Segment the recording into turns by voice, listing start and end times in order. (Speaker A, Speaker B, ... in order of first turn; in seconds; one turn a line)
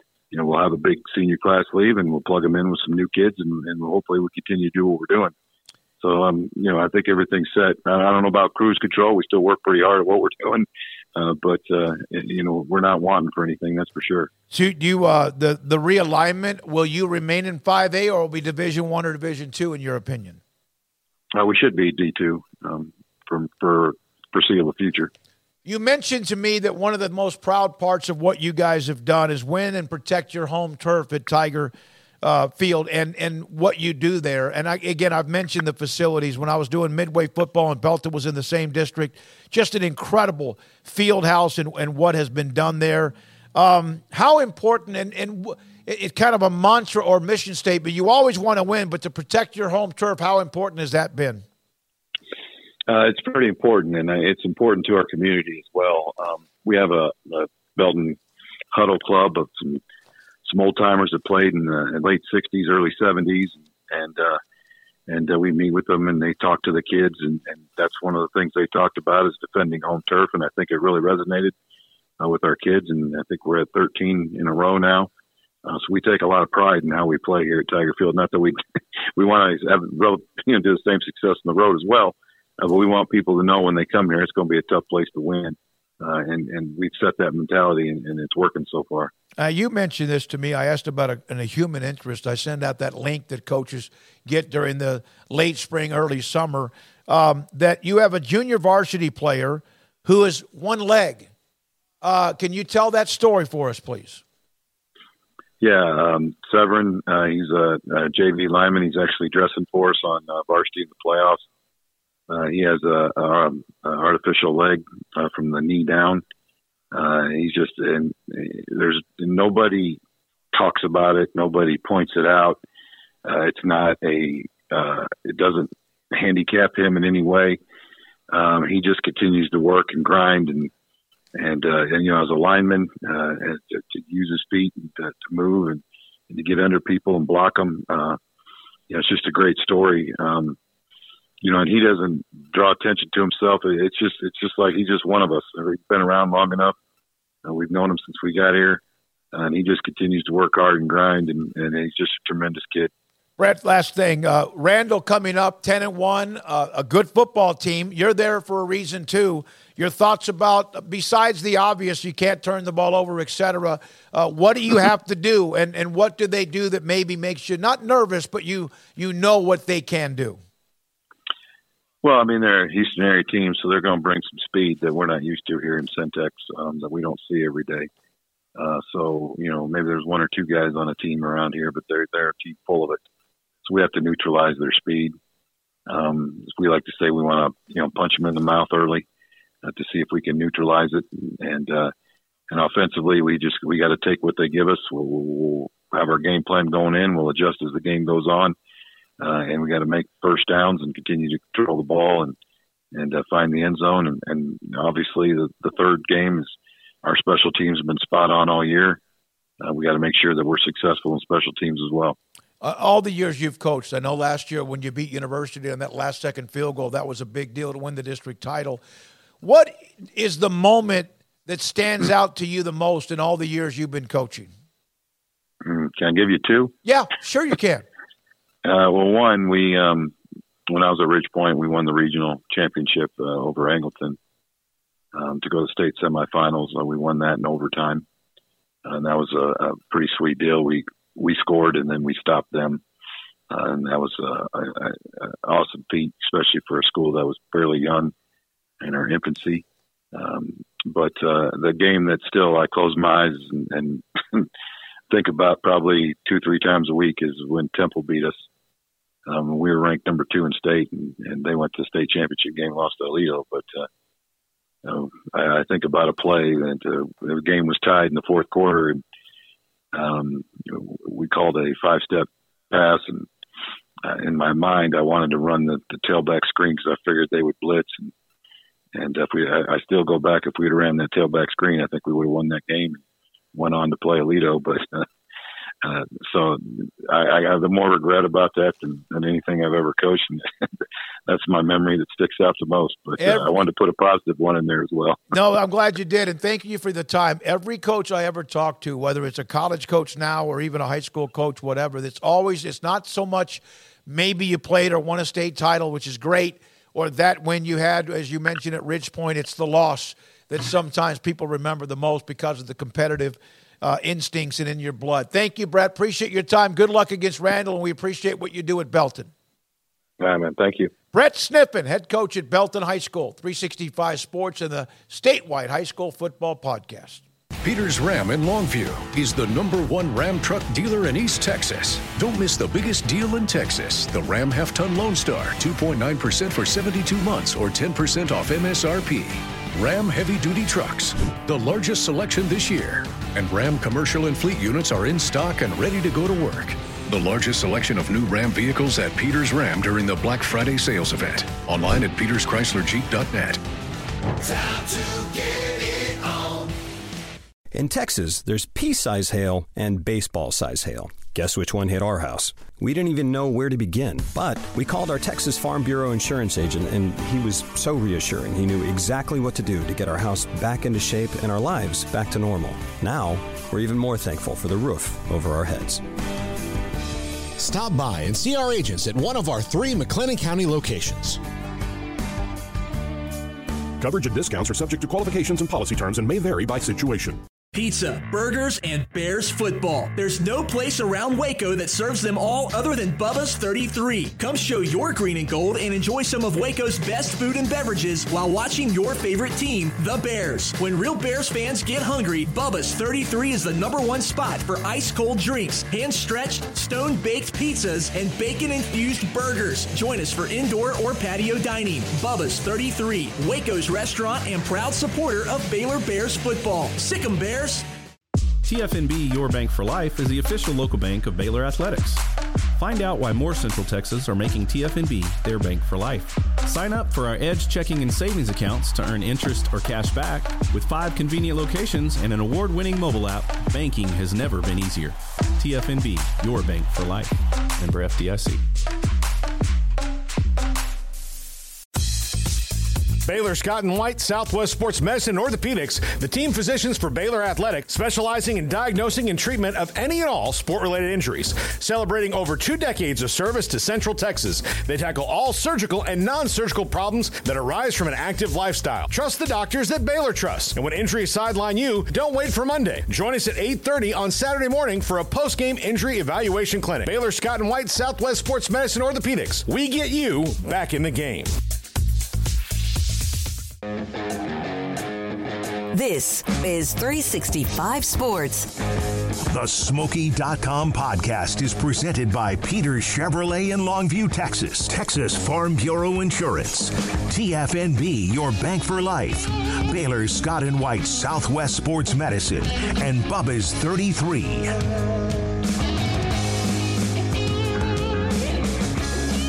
Speaker A: 0.3-5.3
Speaker A: 6.0-14.3
Speaker B: 14.5-20.4
Speaker A: 21.3-25.1
Speaker B: 25.6-51.5
Speaker A: 52.9-58.2
Speaker A: 58.7-59.8
Speaker A: 60.5-64.4
Speaker A: 65.1-71.5
Speaker A: 72.2-75.1
Speaker A: 75.7-78.6
Speaker A: 79.2-89.1
Speaker B: 89.4-101.3
Speaker B: 102.0-104.2
Speaker A: 105.6-111.4
Speaker A: 112.3-116.2
Speaker A: 116.9-120.0
Speaker A: 120.5-122.6
Speaker A: 123.2-127.6
Speaker A: 128.3-130.7
Speaker A: 131.3-138.2
Speaker A: 138.9-140.6
Speaker A: 141.4-146.8
Speaker A: 147.4-148.8
Speaker A: 149.3-152.9
Speaker B: 153.4-170.4
Speaker A: 172.0-177.9
Speaker A: 178.6-183.0
Speaker A: 183.7-185.2
Speaker A: 185.9-189.1
Speaker A: 189.6-191.9
Speaker A: 192.5-198.6
Speaker A: 199.2-202.3
Speaker A: 202.9-206.5
Speaker A: 207.0-209.0
Speaker A: 209.6-212.2
Speaker B: 212.6-218.8
Speaker B: 219.4-224.5
Speaker A: 225.6-226.7
Speaker B: 226.8-227.8
Speaker A: 228.6-230.1
Speaker A: 230.7-234.2
Speaker A: 235.1-238.0
Speaker A: 238.8-242.8
Speaker A: 243.5-248.1
Speaker A: 248.8-254.5
Speaker A: 255.1-258.4
Speaker A: 259.3-263.9
Speaker A: 264.8-269.0
Speaker A: 269.9-273.3
Speaker A: 274.0-278.1
Speaker A: 278.9-283.0
Speaker A: 283.5-285.1
Speaker A: 285.8-290.5
Speaker A: 291.3-295.2
Speaker B: 293.2-293.5
Speaker B: 295.3-319.3
Speaker A: 320.2-320.9
Speaker B: 321.1-327.2
Speaker C: 327.6-353.6
Speaker D: 357.7-376.0
Speaker E: 377.6-381.4
Speaker F: 384.0-387.4
Speaker G: 387.7-417.9
Speaker H: 418.6-422.2
Speaker H: 422.8-438.6
Speaker I: 443.2-471.5
Speaker J: 475.9-478.7
Speaker K: 479.5-494.7